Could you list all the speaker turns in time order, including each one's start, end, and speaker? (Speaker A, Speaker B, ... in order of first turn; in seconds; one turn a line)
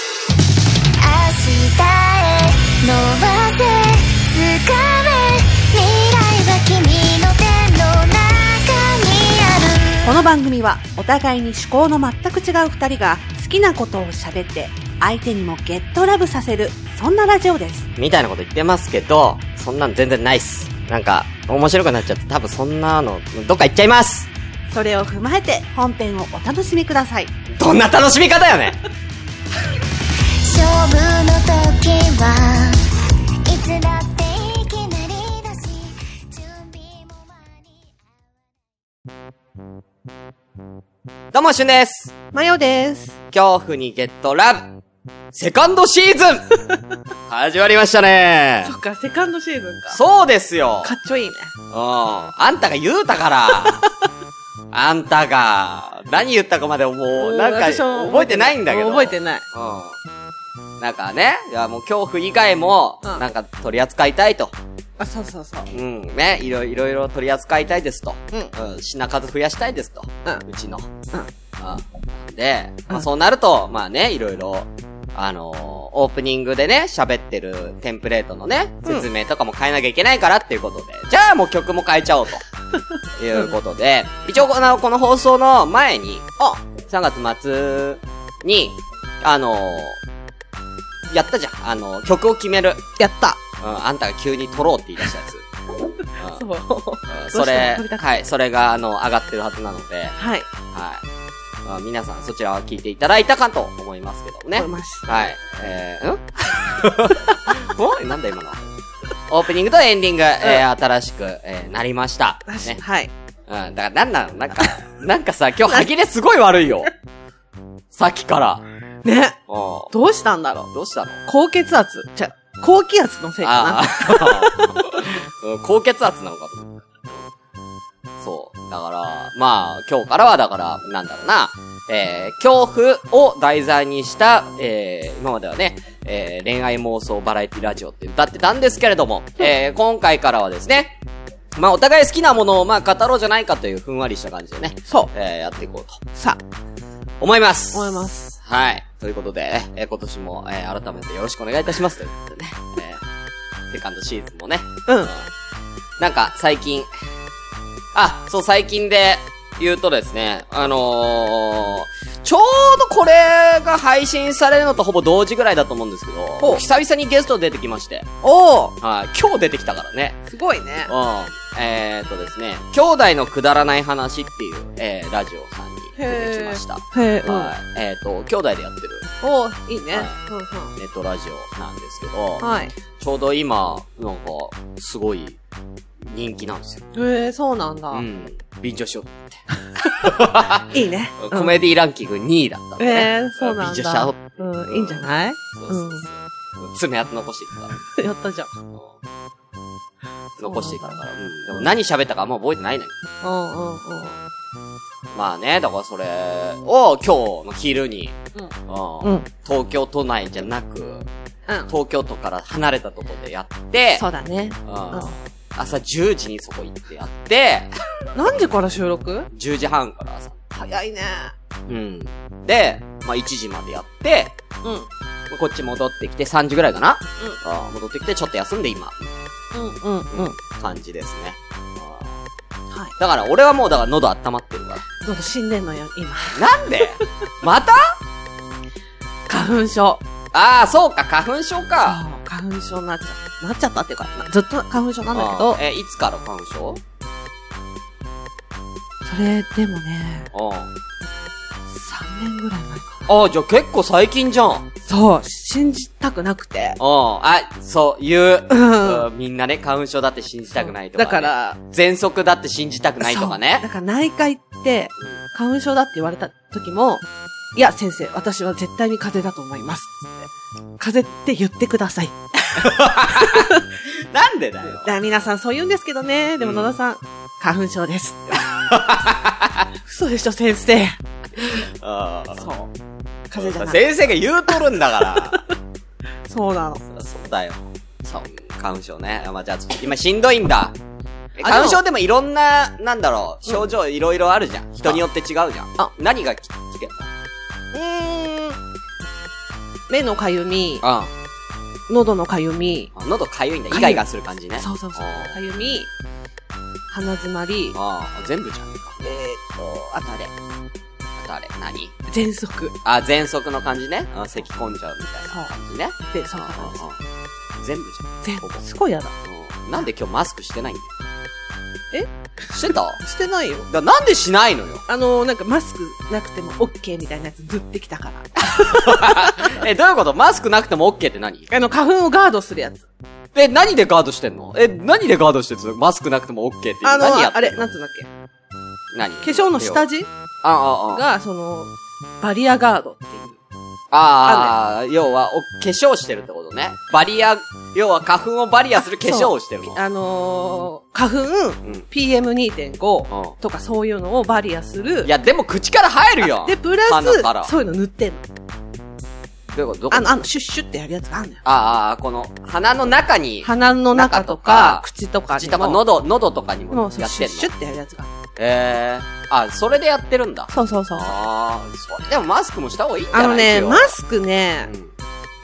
Speaker A: 1.0-10.1
Speaker B: 10.0-17.9
Speaker C: 18.0-24.3
Speaker B: 24.7-27.3
Speaker C: 27.6-28.8
Speaker A: 30.4-37.7
Speaker C: 41.3-42.1
Speaker B: 42.3-43.1
Speaker C: 43.3-44.7
Speaker C: 45.3-46.5
Speaker C: 47.3-48.7
Speaker B: 48.6-50.0
Speaker C: 49.9-50.9
Speaker B: 50.8-51.5
Speaker C: 51.7-53.9
Speaker B: 53.5-53.8
Speaker C: 54.7-60.0
Speaker B: 57.1-59.4
Speaker C: 60.8-64.5
Speaker B: 65.0-65.7
Speaker C: 65.7-70.9
Speaker C: 71.6-82.4
Speaker C: 83.2-86.2
Speaker B: 86.4-86.6
Speaker C: 86.8-90.0
Speaker C: 91.1-92.8
Speaker B: 93.0-93.4
Speaker C: 93.6-95.4
Speaker C: 96.2-96.4
Speaker B: 96.3-98.2
Speaker C: 97.1-100.2
Speaker B: 100.2-100.5
Speaker C: 100.7-101.0
Speaker C: 101.6-108.7
Speaker B: 104.5-105.3
Speaker C: 109.3-112.8
Speaker B: 112.5-113.1
Speaker C: 113.5-116.9
Speaker C: 117.9-118.6
Speaker B: 119.0-119.4
Speaker C: 119.5-119.9
Speaker B: 119.9-120.7
Speaker C: 120.7-121.2
Speaker B: 121.2-124.7
Speaker C: 123.4-127.0
Speaker C: 128.2-140.9
Speaker C: 141.6-146.0
Speaker C: 147.2-153.0
Speaker B: 147.7-148.3
Speaker C: 153.7-155.3
Speaker C: 156.0-156.9
Speaker C: 157.9-168.1
Speaker B: 168.2-168.8
Speaker C: 168.8-170.2
Speaker B: 170.3-170.9
Speaker C: 170.8-179.1
Speaker B: 176.0-177.5
Speaker B: 179.2-180.7
Speaker C: 180.8-185.4
Speaker B: 182.4-182.7
Speaker C: 186.1-186.8
Speaker B: 186.9-188.1
Speaker C: 187.9-197.8
Speaker B: 190.7-191.6
Speaker B: 192.8-196.0
Speaker B: 197.9-198.5
Speaker C: 198.7-199.0
Speaker C: 200.4-203.0
Speaker B: 200.4-201.0
Speaker B: 203.2-204.2
Speaker C: 205.1-208.1
Speaker C: 208.7-211.1
Speaker B: 209.0-209.3
Speaker C: 211.7-214.1
Speaker B: 213.9-215.2
Speaker C: 214.7-218.4
Speaker B: 218.2-219.3
Speaker C: 219.3-220.3
Speaker B: 220.5-221.3
Speaker C: 221.7-224.3
Speaker B: 224.6-224.9
Speaker C: 225.3-229.3
Speaker B: 229.5-230.3
Speaker C: 230.1-232.2
Speaker C: 233.0-234.8
Speaker B: 235.0-236.9
Speaker C: 236.3-238.0
Speaker B: 239.3-240.0
Speaker C: 240.3-242.0
Speaker B: 241.8-245.6
Speaker C: 245.1-246.8
Speaker B: 249.0-250.3
Speaker C: 250.3-250.7
Speaker B: 251.7-253.1
Speaker C: 253.1-254.7
Speaker B: 254.8-256.8
Speaker C: 256.8-263.6
Speaker B: 258.5-259.1
Speaker B: 260.6-261.6
Speaker B: 263.0-267.0
Speaker B: 267.6-270.3
Speaker B: 270.8-273.7
Speaker C: 272.6-274.9
Speaker B: 274.7-278.4
Speaker C: 276.4-276.8
Speaker C: 278.5-279.6
Speaker B: 279.9-280.9
Speaker C: 281.4-282.5
Speaker B: 282.4-282.7
Speaker B: 283.3-283.9
Speaker C: 283.3-285.4
Speaker B: 284.5-285.5
Speaker B: 286.3-286.8
Speaker C: 286.9-290.8
Speaker C: 291.4-297.1
Speaker B: 291.4-291.8
Speaker B: 297.7-298.6
Speaker B: 299.9-300.8
Speaker C: 300.8-301.1
Speaker B: 301.9-302.9
Speaker C: 302.9-305.4
Speaker B: 303.7-304.0
Speaker B: 304.6-305.9
Speaker B: 306.9-307.8
Speaker C: 307.7-309.0
Speaker B: 309.0-310.3
Speaker C: 311.2-311.9
Speaker B: 312.1-312.7
Speaker C: 312.8-317.0
Speaker B: 316.1-316.8
Speaker C: 317.6-318.6
Speaker B: 318.2-319.1
Speaker C: 319.2-320.9
Speaker C: 322.5-323.0
Speaker B: 322.7-323.7
Speaker C: 323.7-324.8
Speaker B: 324.9-329.6
Speaker C: 328.5-331.5
Speaker B: 331.5-332.8
Speaker C: 333.3-337.7
Speaker B: 336.8-338.1
Speaker C: 338.9-339.8
Speaker B: 339.2-340.1
Speaker C: 340.4-341.0
Speaker B: 340.9-343.4
Speaker C: 343.9-349.8
Speaker B: 344.2-344.6
Speaker B: 348.9-355.1
Speaker C: 353.1-353.4
Speaker C: 355.0-357.5
Speaker B: 356.2-358.2
Speaker C: 359.5-360.1
Speaker B: 359.9-361.4
Speaker C: 361.4-367.5
Speaker B: 363.4-365.9
Speaker B: 366.7-368.1
Speaker C: 368.4-373.9
Speaker B: 370.5-371.1
Speaker B: 373.1-374.7
Speaker C: 374.6-374.9